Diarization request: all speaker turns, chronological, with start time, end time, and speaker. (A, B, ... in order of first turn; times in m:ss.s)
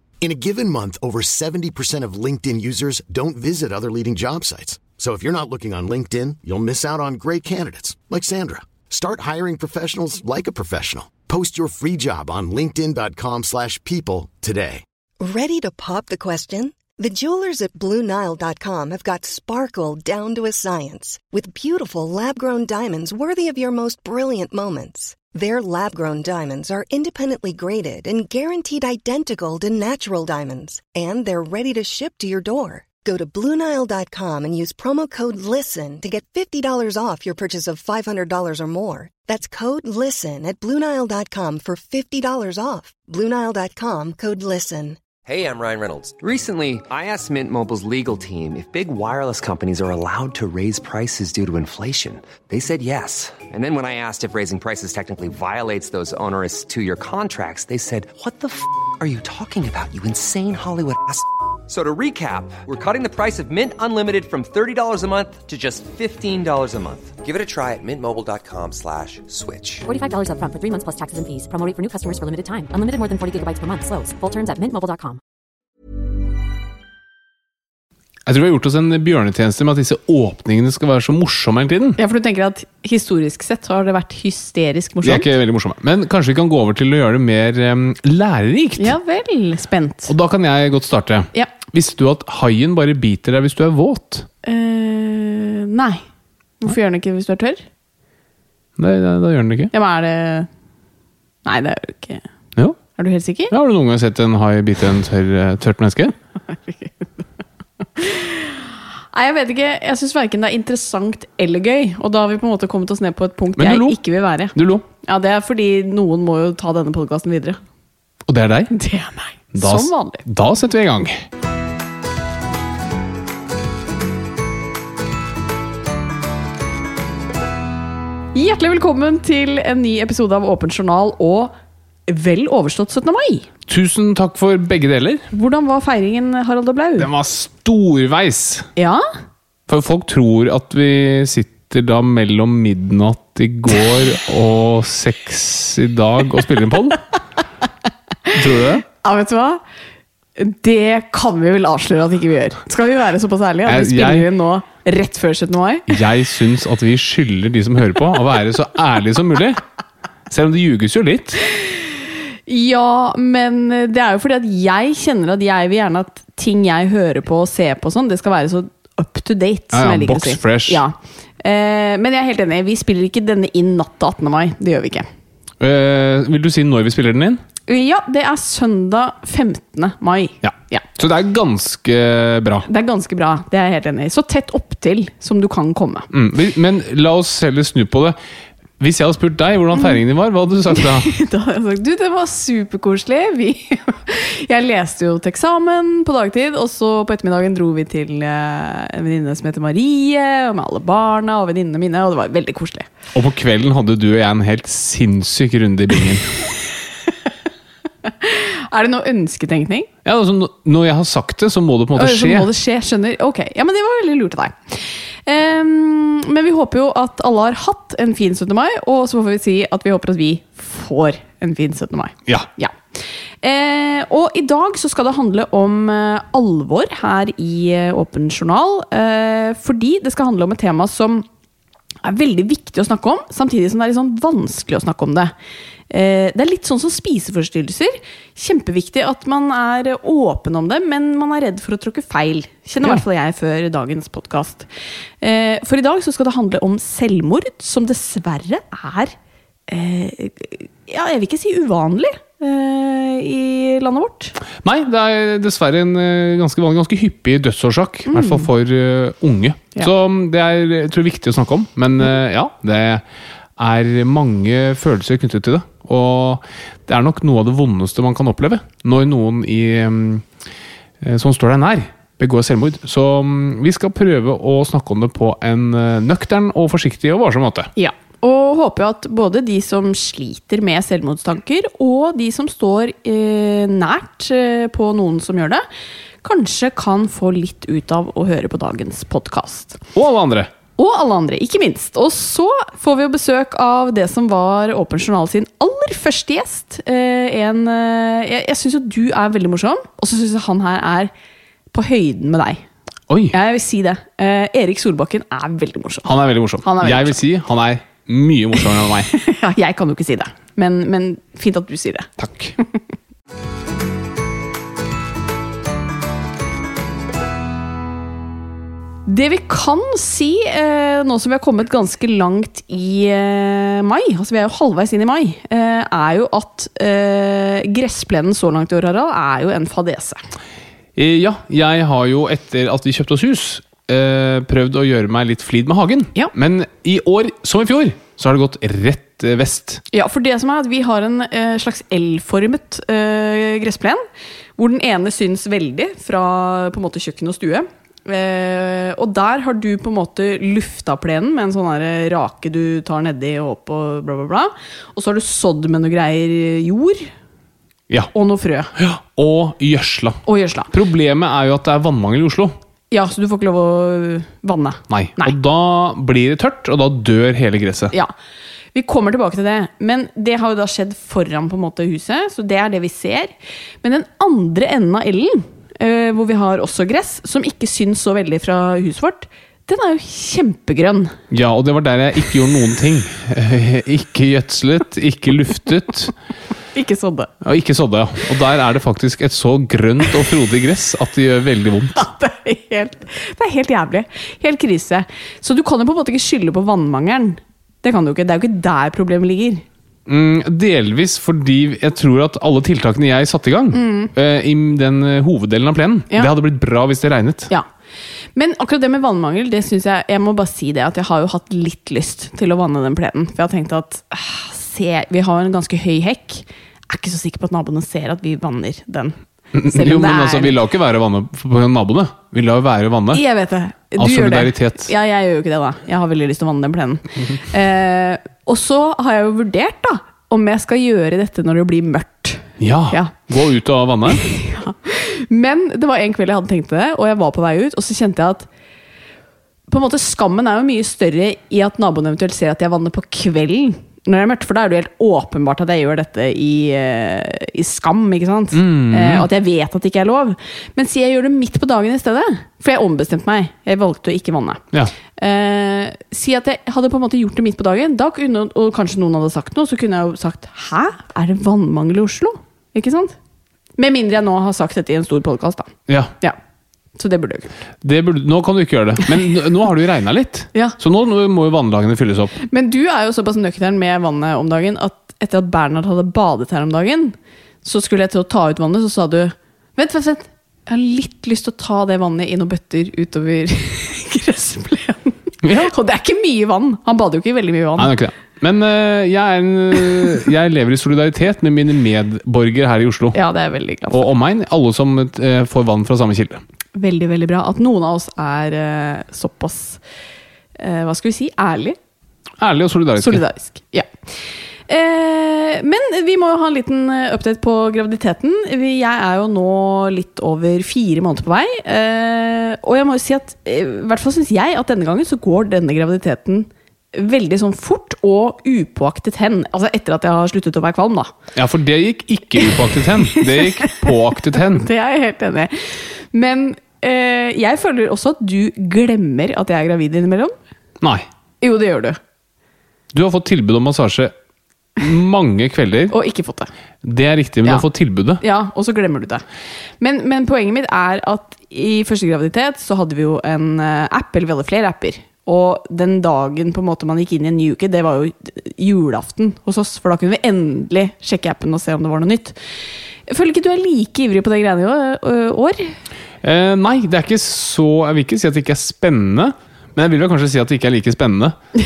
0:00.2-0:14.8 A
0:15.2-0:45.0 B
0:45.2-1:09.8 C
1:09.8-1:15.2 D
1:18.2-1:22.0 E
1:22.0-1:25.3 F
1:25.0-1:28.9 E
1:28.8-1:30.1 F
1:30.1-1:34.3 E
1:34.4-1:36.0 F
1:36.6-1:37.6 F
1:38.8-1:39.7 E
1:39.7-1:40.5 F
1:41.4-1:42.2 F
1:43.0-1:43.5 F
1:43.5-1:46.1 E
1:46.5-1:47.2 F
1:48.0-1:57.6 F
1:53.6-1:54.0 E
1:54.5-1:54.8 E
1:58.3-1:58.7 E
1:58.7-2:00.2 F
1:59.5-2:01.2 E
2:08.3-2:11.5 F
2:12.1-2:13.5 F
2:13.7-2:15.2 E
2:15.3-2:17.1 F
2:17.0-2:18.7 E
2:18.8-2:19.0 F
2:19.7-2:27.0 E
2:28.3-2:28.8 E
2:28.9-2:29.6 F
2:30.4-2:35.9 F
2:33.6-2:34.3 E
2:35.9-2:39.6 E
2:40.3-2:41.4 E
2:42.5-2:55.1 F
2:49.7-2:50.8 E
2:55.6-2:57.4 E
2:57.7-3:00.8 F
3:00.4-3:02.7 E
3:02.6-3:06.1 F
3:06.1-3:08.2 E
3:08.8-3:11.1 E
3:10.7-3:22.9 F
3:23.1-3:26.3 E
3:28.0-3:29.9 F
3:30.0-3:32.5 E
3:32.0-3:42.8 F
3:43.4-3:51.2 F
3:52.0-3:55.3 F
3:55.9-4:04.7 F
4:05.2-4:09.1 F
4:09.7-4:14.4 F
4:14.6-4:23.0 E
4:18.1-4:18.5 F
4:23.6-4:30.2 E
4:31.0-4:37.7 E
4:37.8-4:45.6 F
4:46.2-4:49.8 F
4:49.9-4:50.5 E
4:50.8-5:01.1 F
5:01.7-5:02.6 F
5:03.1-5:03.3 E
5:03.3-5:07.2 F
5:06.0-5:09.1 E
5:09.1-5:12.1 F
5:12.2-5:12.5 E
5:19.0-5:30.2 F
5:31.0-5:39.8 E
5:39.9-5:44.0 F
5:44.6-5:57.1 F
5:58.1-5:58.7 F
5:58.8-6:02.5 E
6:00.2-6:00.7 F
6:02.9-6:05.3 F
6:04.9-6:07.9 E
6:08.7-6:21.1 F
6:21.3-6:26.1 E
6:26.7-6:27.3 F
6:27.4-6:32.0 E
6:31.9-6:39.6 F
6:40.1-6:47.5 E
6:43.7-6:44.1 F
6:48.4-7:00.6 F
6:59.5-7:03.2 E
7:03.1-7:13.1 F
7:04.0-7:04.9 E
7:12.6-7:14.2 E
7:14.1-7:18.5 F
7:19.7-7:34.6 F
7:28.5-7:29.3 E
7:35.2-7:43.1 F
7:43.8-7:46.4 F
7:45.9-7:46.1 E
7:47.0-7:47.5 F
7:47.8-7:52.3 E
7:52.4-8:07.9 F
8:05.4-8:05.7 E
8:07.8-8:13.2 E
8:13.1-8:14.0 F
8:13.9-8:16.4 E
8:16.7-8:19.8 F
8:20.6-8:21.8 F
8:22.4-8:23.2 E
8:23.0-8:23.9 F
8:24.7-8:41.1 F
8:41.3-8:44.7 E
8:43.1-8:43.8 F
8:44.5-8:50.3 F
8:50.8-8:51.0 E
8:51.4-8:52.0 F
8:52.9-8:54.1 E
8:54.8-8:55.9 E
8:55.9-8:56.5 F
8:56.8-8:58.2 E
8:58.2-8:59.2 F
8:59.8-9:12.4 F
9:13.1-9:15.8 F
9:16.2-9:21.4 E